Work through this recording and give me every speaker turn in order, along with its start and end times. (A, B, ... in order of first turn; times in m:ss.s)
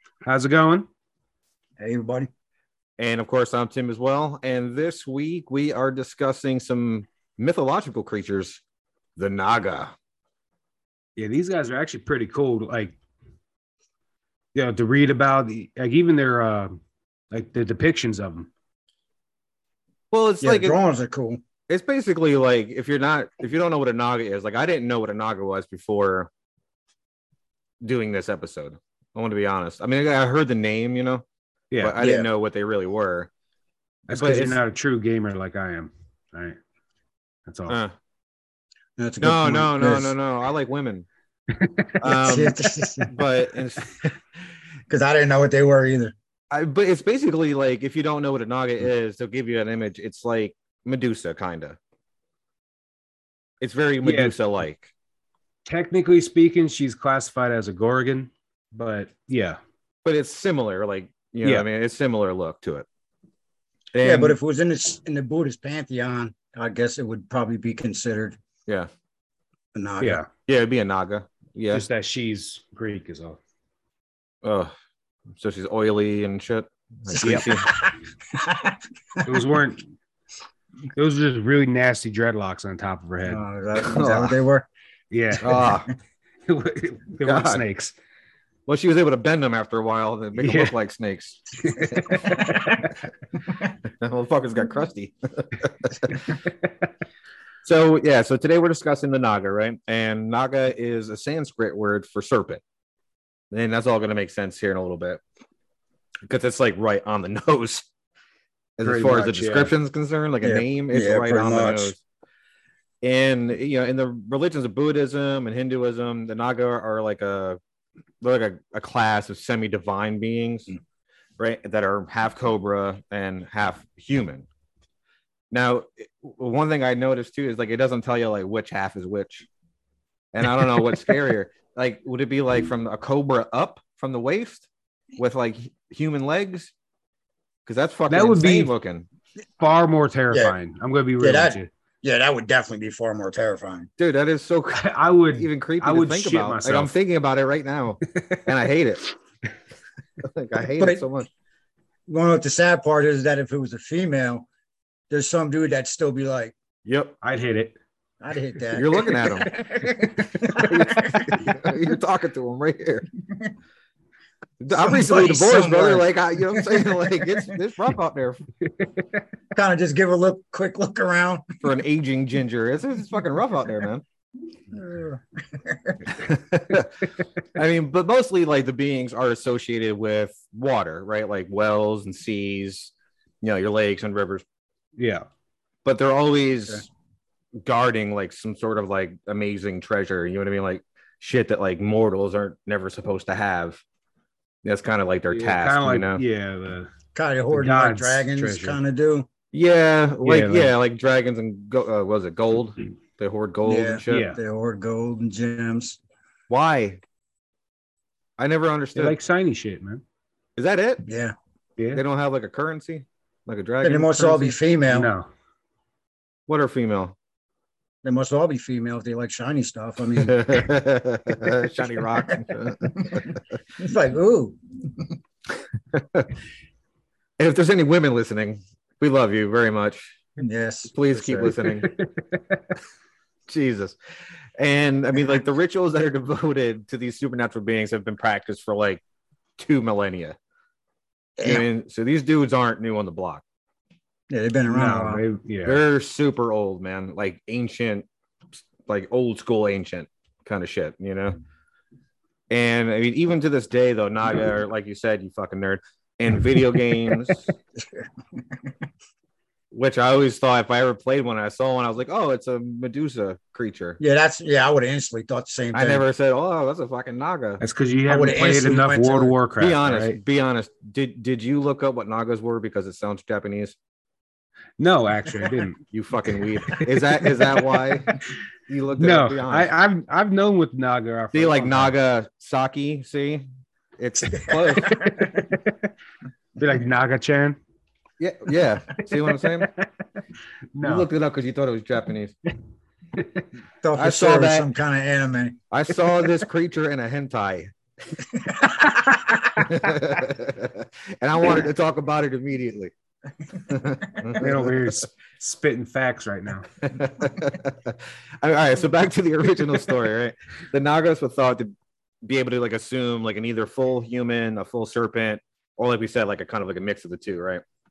0:00.2-0:00.9 A
0:01.8-0:02.3 B
0:03.0-0:08.6 C
0:09.2-0:09.9 C
0:11.2-0:12.9 A
0:14.5-0:16.7 A
0:17.3-0:18.5 A
0:20.1-0:20.8 C
0:20.4-0:21.4 B
0:21.7-0:26.3 C
0:27.8-0:31.2 C
0:31.7-0:32.0 A
0:31.8-0:33.3 C
0:32.0-0:32.3 B
0:34.1-0:34.6 C
0:34.1-0:36.6 A
0:37.5-0:37.8 A
0:37.7-0:37.9 C
0:39.0-0:40.1 B
0:39.2-0:41.0 C
0:41.5-0:42.1 A
0:42.0-0:44.1 C
0:42.1-0:43.1 B
0:44.9-0:46.1 B
0:46.5-0:51.8 C
0:53.6-0:54.9 C
0:54.0-0:54.4 A
0:55.7-0:59.6 A
1:00.0-1:02.8 C
1:03.9-1:04.4 C
1:04.0-1:08.4 B
1:09.7-1:10.2 B
1:10.0-1:10.3 A
1:10.4-1:11.8 C
1:11.7-1:13.4 A
1:14.4-1:14.7 C
1:15.3-1:17.7 C
1:17.1-1:19.4 B
1:17.2-1:17.5 A
1:19.2-1:19.8 A
1:21.0-1:23.4 A
1:23.2-1:24.7 B
1:23.8-1:24.4 C
1:25.1-1:25.6 A
1:25.4-1:25.9 C
1:26.5-1:27.9 A
1:27.2-1:27.6 C
1:28.7-1:32.4 C
1:30.4-1:30.7 A
1:31.6-1:32.8 A
1:33.8-1:36.3 C
1:37.6-1:42.6 C
1:43.5-1:45.2 C
1:46.2-1:47.9 C
1:48.8-1:52.0 C
1:48.8-1:49.7 A
1:50.4-1:52.0 B
1:53.0-1:57.6 C
1:58.2-2:00.7 C
2:01.4-2:04.4 C
2:05.5-2:09.4 C
2:10.3-2:16.7 C
2:17.6-2:19.1 C
2:18.1-2:18.7 A
2:19.6-2:21.7 A
2:21.2-2:23.9 B
2:24.0-2:29.0 C
2:24.7-2:26.9 A
2:30.2-2:31.3 C
2:30.8-2:31.0 B
2:32.1-2:34.4 B
2:35.1-2:36.5 B
2:36.8-2:37.2 C
2:37.2-2:37.8 A
2:38.2-2:41.3 B
2:38.7-2:39.5 C
2:40.4-2:43.1 C
2:44.6-2:48.4 C
2:44.7-2:47.0 B
2:49.5-2:51.6 B
2:51.6-2:54.0 C
2:54.7-2:56.0 B
2:56.1-3:04.4 C
3:05.0-3:05.2 A
3:05.8-3:06.9 C
3:07.6-3:13.8 C
3:14.6-3:16.2 C
3:15.3-3:16.9 A
3:17.1-3:19.2 B
3:17.5-3:18.8 A
3:19.5-3:24.3 C
3:20.2-3:20.7 A
3:23.6-3:26.0 B
3:24.1-3:24.4 A
3:26.5-3:27.0 C
3:28.4-3:29.2 C
3:28.9-3:30.0 A
3:30.6-3:31.0 C
3:31.0-3:31.3 B
3:31.8-3:32.0 A
3:31.9-3:34.6 C
3:33.8-3:35.1 B
3:34.9-3:35.3 A
3:36.5-3:37.2 C
3:38.0-3:40.5 B
3:40.2-3:43.4 C
3:43.8-3:44.6 B
3:45.9-3:46.3 C
3:47.4-3:50.2 C
3:50.4-3:51.5 B
3:50.9-3:51.9 C
3:53.5-3:54.0 C
3:54.6-3:59.0 C
3:59.6-4:00.4 C
4:01.4-4:01.6 B
4:01.4-4:03.4 C
4:04.3-4:05.2 B
4:04.7-4:05.8 A
4:05.6-4:08.0 C
4:08.8-4:11.4 C
4:12.5-4:17.5 C
4:17.8-4:18.0 B
4:19.7-4:24.0 C
4:24.0-4:26.0 B
4:25.7-4:27.6 C
4:27.6-4:30.2 A
4:28.1-4:29.3 B
4:29.6-4:33.8 C
4:34.8-4:35.8 A
4:35.9-4:39.7 C
4:36.7-4:37.8 A
4:39.0-4:41.9 A
4:41.3-4:43.5 C
4:44.0-4:45.3 C
4:44.4-4:45.9 A
4:46.6-4:47.6 A
4:48.2-4:49.7 C
4:49.1-4:49.9 A
4:50.7-4:51.1 A
4:50.8-4:52.4 C
4:53.2-4:53.4 A
4:53.8-4:55.6 B
4:53.9-4:54.7 C
4:55.7-4:57.7 C
4:58.5-4:59.4 B
4:59.5-5:02.9 C
5:03.7-5:04.9 C
5:04.4-5:06.7 A
5:06.8-5:17.6 C